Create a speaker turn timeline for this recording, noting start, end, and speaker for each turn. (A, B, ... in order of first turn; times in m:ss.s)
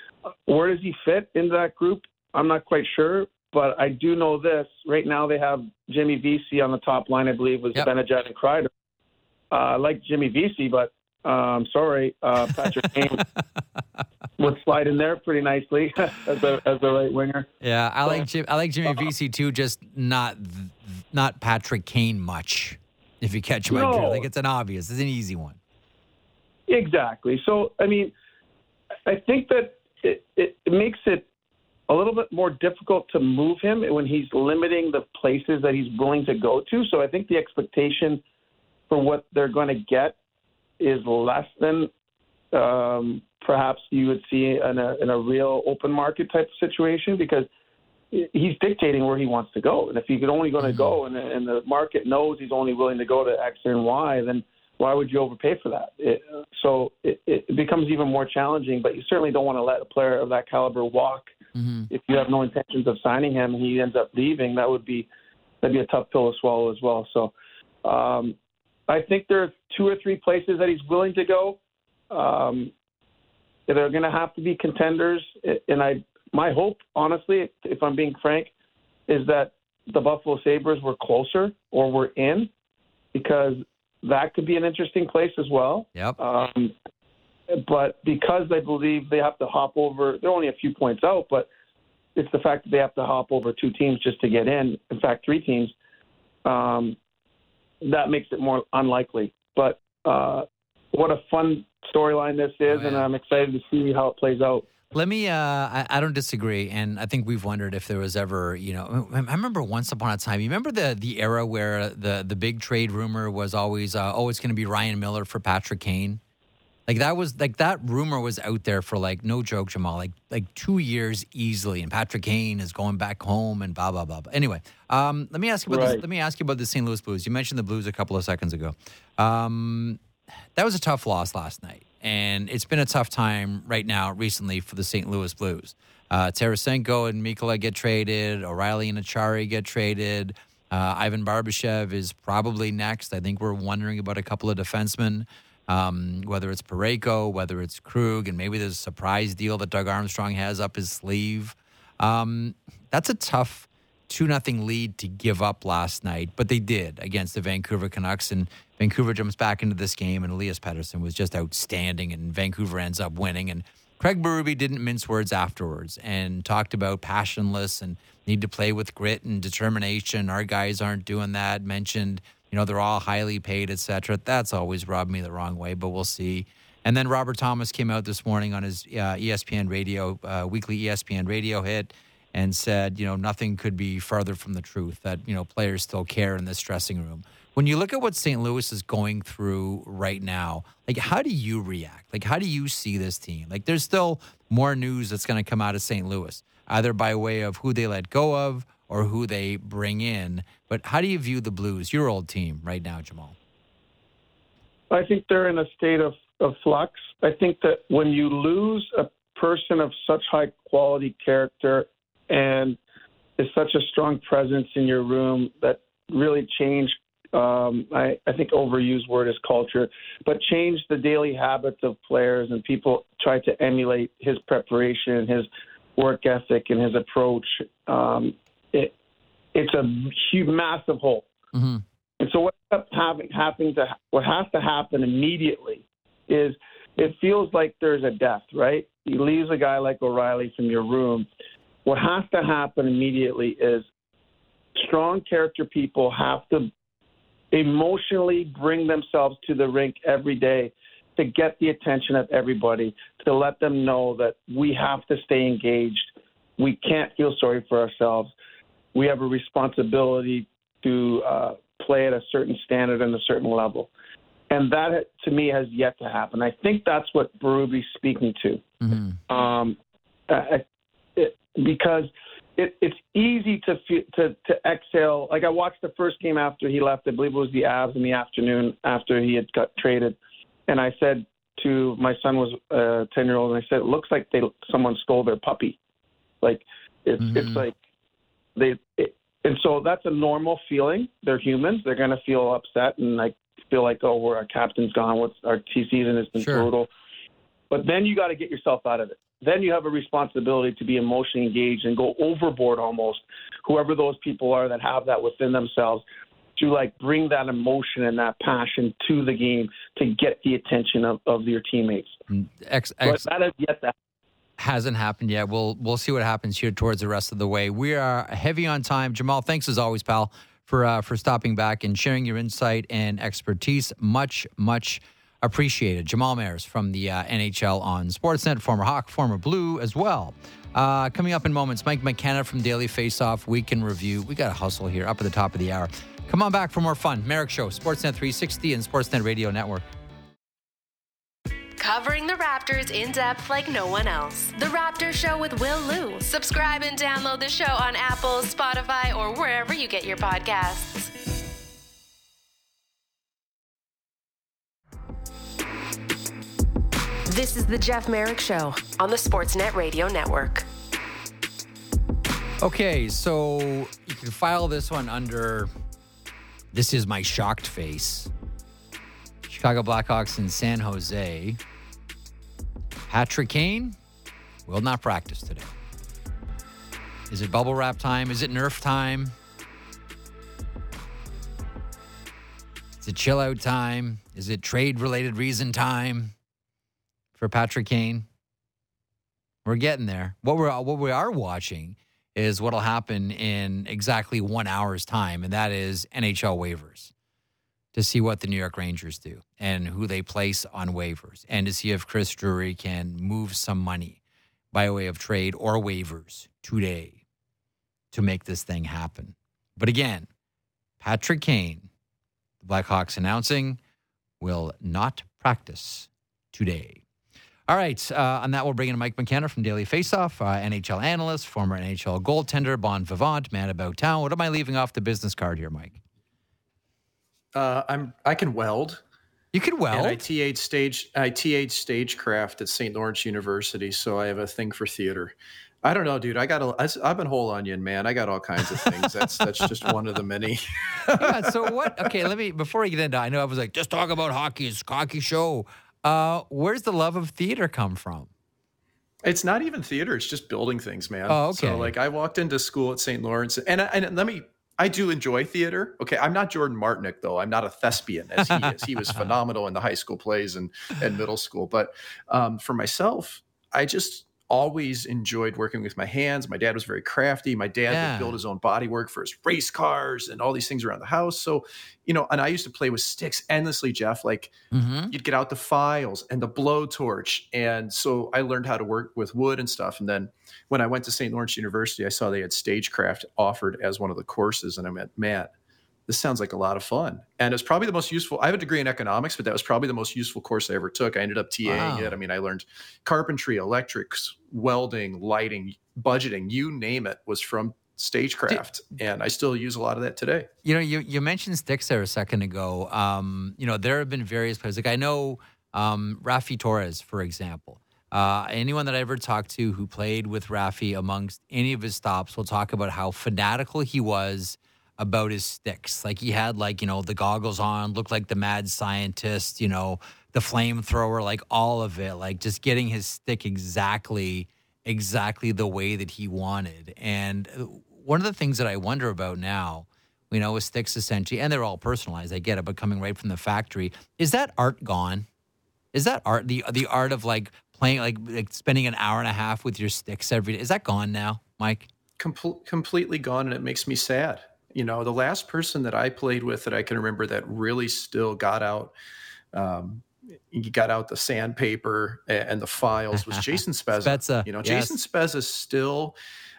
0:00.4-0:08.7 A
0:09.5-0:13.2 A
0:14.4-0:17.5 A
0:17.6-0:25.6 B
0:23.7-0:24.3 A
0:26.7-0:28.1 A
0:29.0-0:31.3 A
0:31.9-0:38.2 A
0:38.9-0:40.2 A
0:40.8-0:41.9 A
0:42.5-0:47.5 A
0:48.1-1:01.3 A
0:50.6-0:50.9 B
1:01.5-1:01.9 B
1:01.9-1:05.1 A
1:05.6-1:07.3 A
1:07.8-1:08.4 A
1:08.9-1:11.6 A
1:12.1-1:12.7 A
1:13.7-1:18.5 A
1:19.1-1:22.5 A
1:23.1-1:26.7 A
1:27.5-1:31.5 A
1:32.2-1:35.7 A
1:36.4-1:37.0 A
1:37.8-1:44.6 A
1:42.7-1:43.0 B
1:44.9-1:56.2 B
1:56.9-2:10.0 B
2:05.7-2:06.0 A
2:10.5-3:23.4 B
3:24.9-3:32.8 A
3:33.4-3:48.9 A
3:49.5-3:51.3 A
3:51.5-3:51.8 B
3:52.2-4:01.3 A
4:01.8-4:03.8 A
4:04.7-4:06.7 A
4:07.5-4:18.3 A
4:18.9-4:23.9 A
4:24.5-4:28.6 A
4:28.8-4:29.2 B
4:29.3-4:29.8 A
4:30.3-4:30.6 A
4:31.2-4:40.2 A
4:40.7-4:45.8 A
4:46.4-4:47.7 A
4:47.2-4:47.6 B
4:48.6-4:56.9 A
4:56.4-4:56.7 B
4:57.7-5:06.0 A
5:06.6-5:12.2 A
5:12.3-5:13.2 B
5:13.0-5:13.9 A
5:14.6-5:39.8 B
5:41.8-5:51.1 C
5:57.3-6:00.6 C
6:02.6-6:05.7 B
6:06.7-6:08.3 B
6:09.4-6:11.6 B
6:13.1-6:14.0 B
6:14.7-6:15.7 B
6:17.3-6:19.3 B
6:23.0-6:26.3 B
6:27.4-6:28.3 B
6:29.6-6:37.1 B
6:37.9-6:44.2 B
6:44.7-6:47.2 B
6:48.1-6:50.3 B
6:51.0-6:51.9 B
6:52.6-6:53.8 B
6:54.4-6:57.0 B
6:57.7-7:06.0 B
7:07.5-7:09.0 D
7:09.5-7:10.2 B
7:09.9-7:22.1 D
7:21.1-7:28.3 B
7:29.2-7:54.5 D
7:31.3-7:31.9 B
7:38.5-7:39.3 B
7:47.9-7:48.4 B
7:54.7-7:55.1 B
7:55.1-8:05.5 D
8:06.1-8:20.5 D
8:11.6-8:12.2 B
8:20.6-8:55.2 B
8:55.9-9:01.9 B
9:02.2-9:08.9 D
9:09.5-9:16.1 D
9:13.2-9:15.0 B